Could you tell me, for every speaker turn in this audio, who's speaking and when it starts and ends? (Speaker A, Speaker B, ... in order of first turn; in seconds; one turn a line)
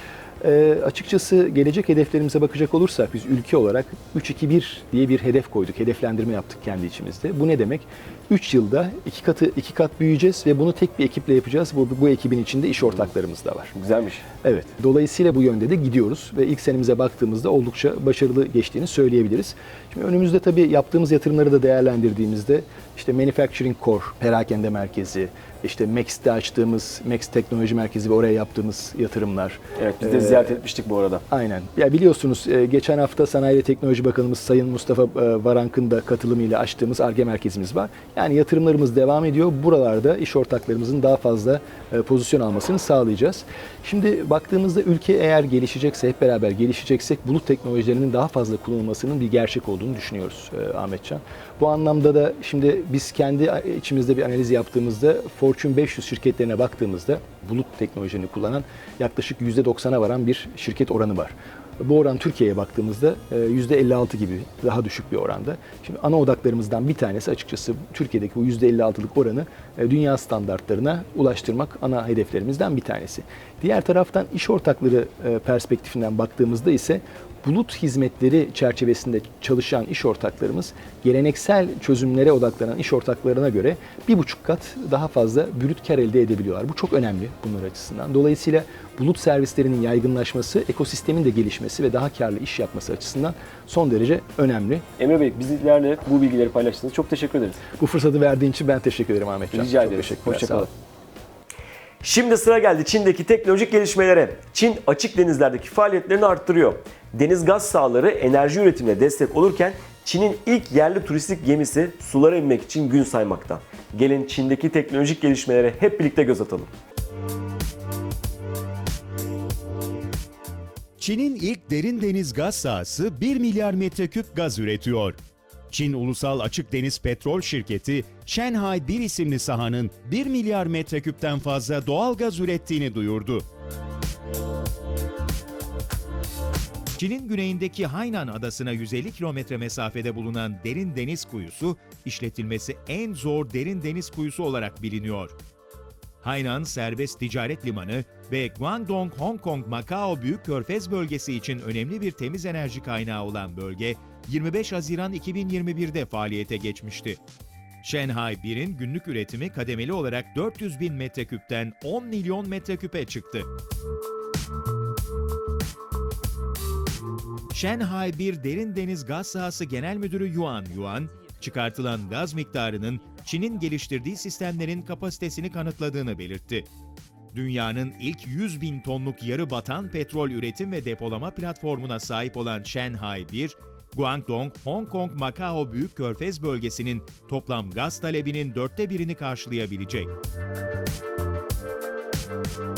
Speaker A: 0.4-13.7
Speaker B: 13.7-14.2
Speaker A: 14.4-30.6
Speaker B: 29.8-31.2
Speaker A: 31.3-94.8
Speaker B: 95.0-97.6
Speaker A: 97.8-100.7
Speaker B: 99.5-100.7
Speaker B: 102.0-116.7
Speaker C: 121.0-125.2
Speaker C: 125.7-133.4
Speaker C: 136.9-145.3
Speaker C: 146.2-157.2
Speaker C: 157.8-163.5
Speaker C: 167.5-176.7
Speaker C: 177.3-190.1